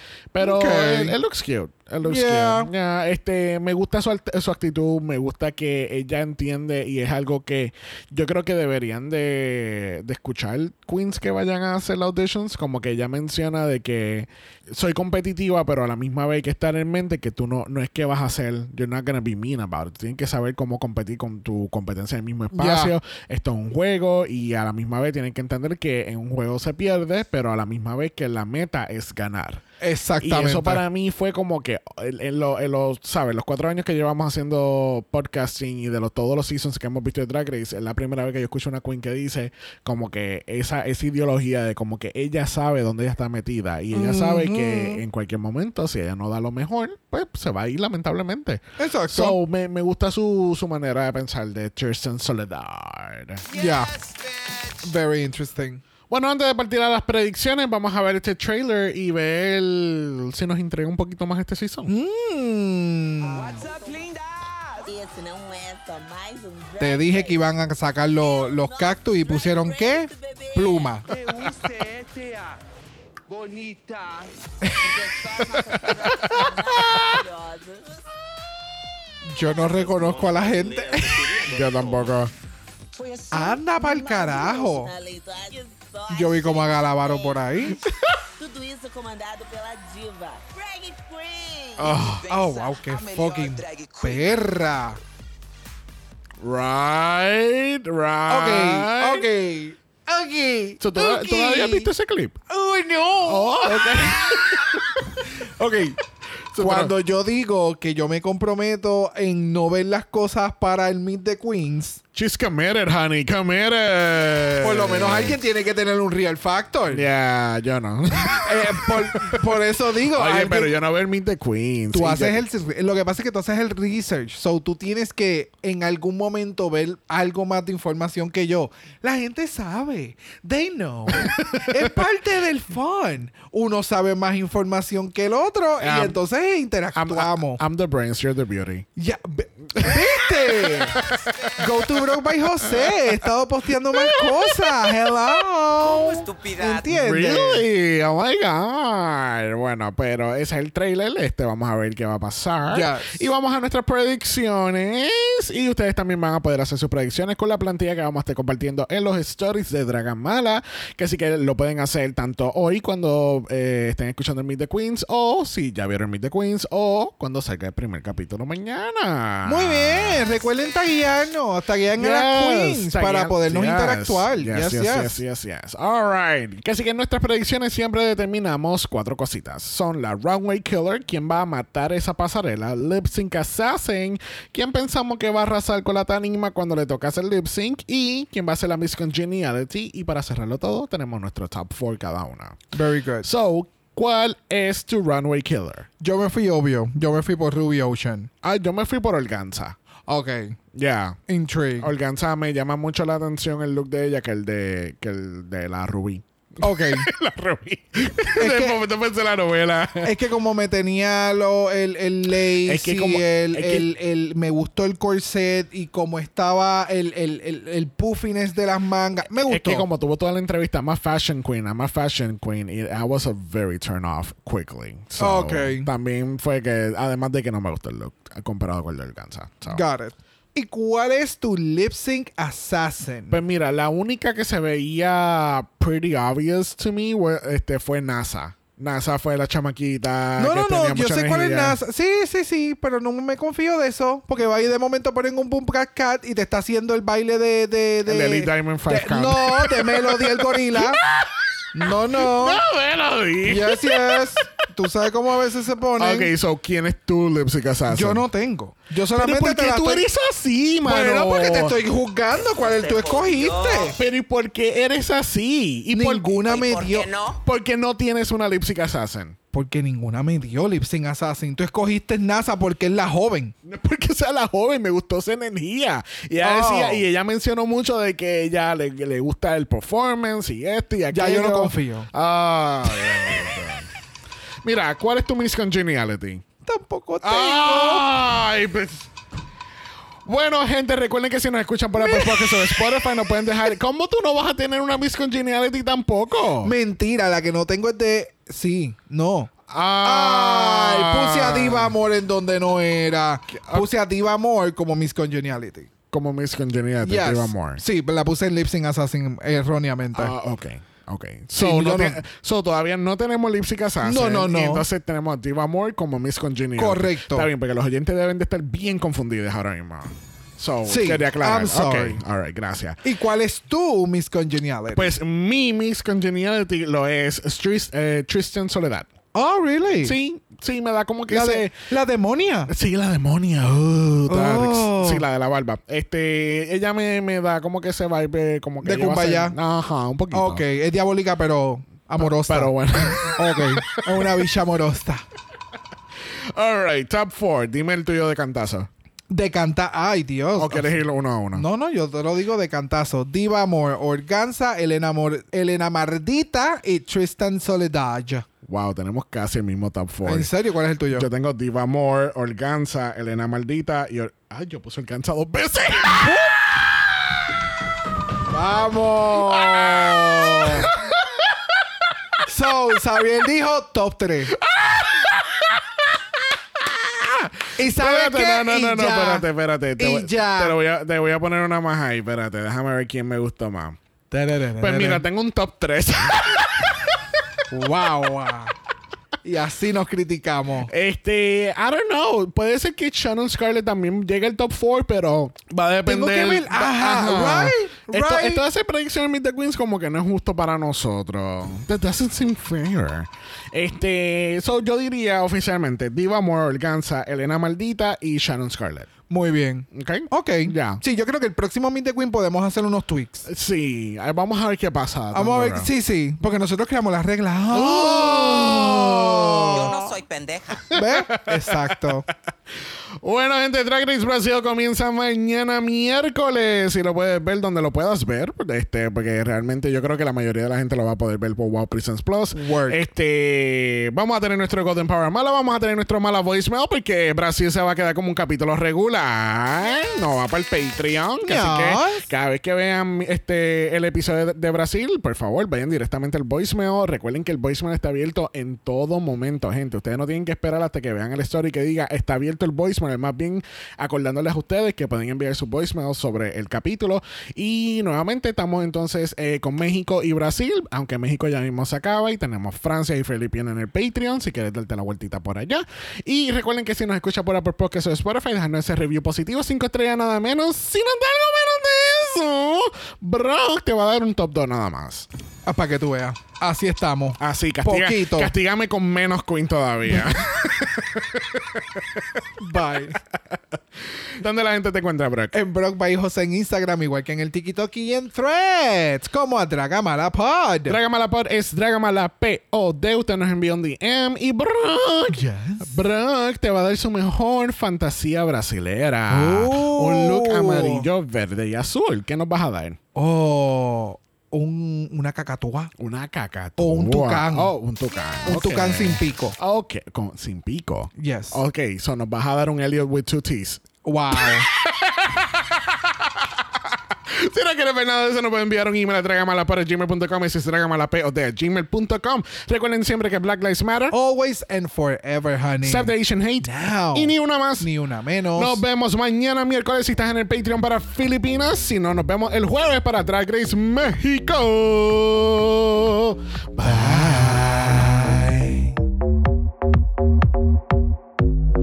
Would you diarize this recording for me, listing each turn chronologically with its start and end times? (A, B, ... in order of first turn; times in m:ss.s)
0:00.3-0:29.6 A
0:00.4-0:01.2 B
0:02.0-0:02.7 B
0:22.5-0:23.0 B
0:29.8-0:30.8 B
0:30.2-0:53.4 A
0:43.9-0:45.0 B
0:48.8-0:49.4 B
0:53.5-0:53.9 B
0:54.8-0:55.8 B
0:56.1-1:01.9 A
1:01.9-1:03.6 B
1:03.2-1:04.9 C
1:03.4-1:04.1 D
1:04.9-1:11.0 D
1:06.8-1:11.1 B
1:11.1-1:12.5 C
1:13.3-1:14.3 C
1:14.6-1:15.0 B
1:14.8-1:17.8 D
1:16.1-1:17.2 A
1:16.2-1:16.4 B
1:19.2-1:21.4 B
1:21.5-1:22.3 A
1:23.0-1:27.5 D
1:23.3-1:24.9 B
1:26.1-1:27.9 B
1:28.4-1:32.0 D
1:31.8-1:32.2 A
1:31.8-1:35.0 B
1:32.0-1:34.0 C
1:36.4-1:39.2 A
1:38.3-1:41.9 B
1:40.8-1:42.4 A
1:42.5-1:44.8 B
1:43.2-1:44.9 A
1:45.4-1:46.0 B
1:46.5-1:47.0 A
1:46.6-1:52.0 B
1:52.1-1:55.4 A
1:54.6-1:57.1 B
1:56.9-2:02.4 A
1:58.2-2:00.7 B
2:01.9-2:17.6 B
2:11.2-2:11.8 A
2:15.8-2:16.2 A
2:17.0-2:18.9 A
2:19.0-2:21.0 B
2:19.7-2:22.0 A
2:21.6-2:27.7 B
2:22.6-2:23.0 A
2:23.9-2:25.0 A
2:26.3-2:26.7 E
2:26.8-2:50.2 A
2:32.7-2:33.3 B
2:49.4-2:55.2 B
2:52.0-3:12.6 A
3:12.7-3:13.3 B
3:13.2-3:15.9 A
3:16.0-3:18.3 B
3:18.4-3:19.8 A
3:20.1-3:20.6 B
3:20.7-3:21.2 A
3:21.3-3:21.9 B
3:21.8-3:30.1 A
3:26.6-3:27.1 B
3:28.4-3:28.8 B
3:30.0-3:39.9 B
3:32.6-3:33.9 A
3:39.4-3:49.8 A
3:45.2-3:45.9 B
3:49.7-3:53.4 B
3:53.3-4:01.8 A
4:00.4-4:11.0 B
4:08.1-4:11.3 A
4:11.7-4:12.6 B
4:12.1-4:14.5 A
4:13.4-4:16.3 B
4:16.0-4:18.3 A
4:17.9-4:20.1 B
4:19.1-4:21.8 A
4:20.8-4:24.0 B
4:22.9-4:23.7 E
4:24.0-4:26.3 A
4:25.9-4:27.1 B
4:26.5-4:27.4 E
4:27.4-4:29.4 A
4:29.5-4:33.5 B
4:33.6-4:43.9 A
4:36.4-4:37.1 B
4:41.1-4:42.1 B
4:44.6-4:46.4 A
4:46.6-4:48.1 B
4:47.2-4:49.1 A
4:50.2-4:56.7 A
4:52.0-4:53.0 B
4:56.6-4:59.5 B
4:59.7-5:02.0 A
5:00.0-5:05.9 B
5:03.5-5:03.9 A
5:06.1-5:07.8 A
5:07.0-5:10.3 B
5:10.1-5:23.0 A
5:11.6-5:12.2 B
5:14.0-5:14.9 B
5:16.8-5:17.5 B
5:20.8-5:22.2 B
5:23.0-5:25.2 B
5:25.0-5:29.1 A
5:29.3-5:30.2 B
5:30.0-5:31.8 A
5:31.3-5:32.7 B
5:32.7-5:40.6 A
5:34.3-5:35.2 B
5:38.8-5:39.6 B
5:40.3-5:45.2 B
5:42.2-5:44.3 A
5:46.6-5:48.9 A
5:49.3-5:51.0 B
5:50.6-5:51.6 A
5:51.5-5:58.5 B
5:58.6-6:00.5 A
6:00.2-6:01.3 B
6:01.1-6:07.2 A
6:06.2-6:06.5 B
6:08.5-6:10.9 B
6:09.5-6:11.7 A
6:12.4-6:14.5 B
6:14.5-6:16.1 A
6:16.8-6:24.0 A
6:17.8-6:20.8 B
6:24.3-6:25.2 B
6:24.8-6:27.1 A
6:27.7-6:28.7 B
6:29.4-6:30.9 B
6:30.9-6:49.1 A
6:36.1-6:38.6 B
6:49.3-6:53.5 B
6:49.9-6:51.0 A
6:53.5-6:55.9 A
6:55.3-7:00.2 B
6:57.7-6:59.9 A
6:59.7-7:00.9 E
7:00.9-7:02.0 A
7:00.9-7:02.3 B
7:03.2-7:55.3 A
7:12.5-7:13.0 B
7:21.4-7:22.3 B
7:55.6-7:58.5 B
7:57.4-8:02.4 A
8:02.6-8:03.2 B
8:04.1-8:05.6 A
8:05.5-8:11.0 B
8:10.9-8:23.0 A
8:15.3-8:16.0 B
8:19.3-8:21.1 B
8:23.2-8:25.9 B
8:26.0-8:36.1 A
8:26.8-8:27.7 B
8:28.4-8:29.6 B
8:31.2-8:31.6 B
8:34.0-8:34.7 B
8:37.3-8:44.2 A
8:44.1-8:48.8 B
8:45.8-8:47.9 A
8:48.6-8:58.7 A
8:56.8-8:58.9 B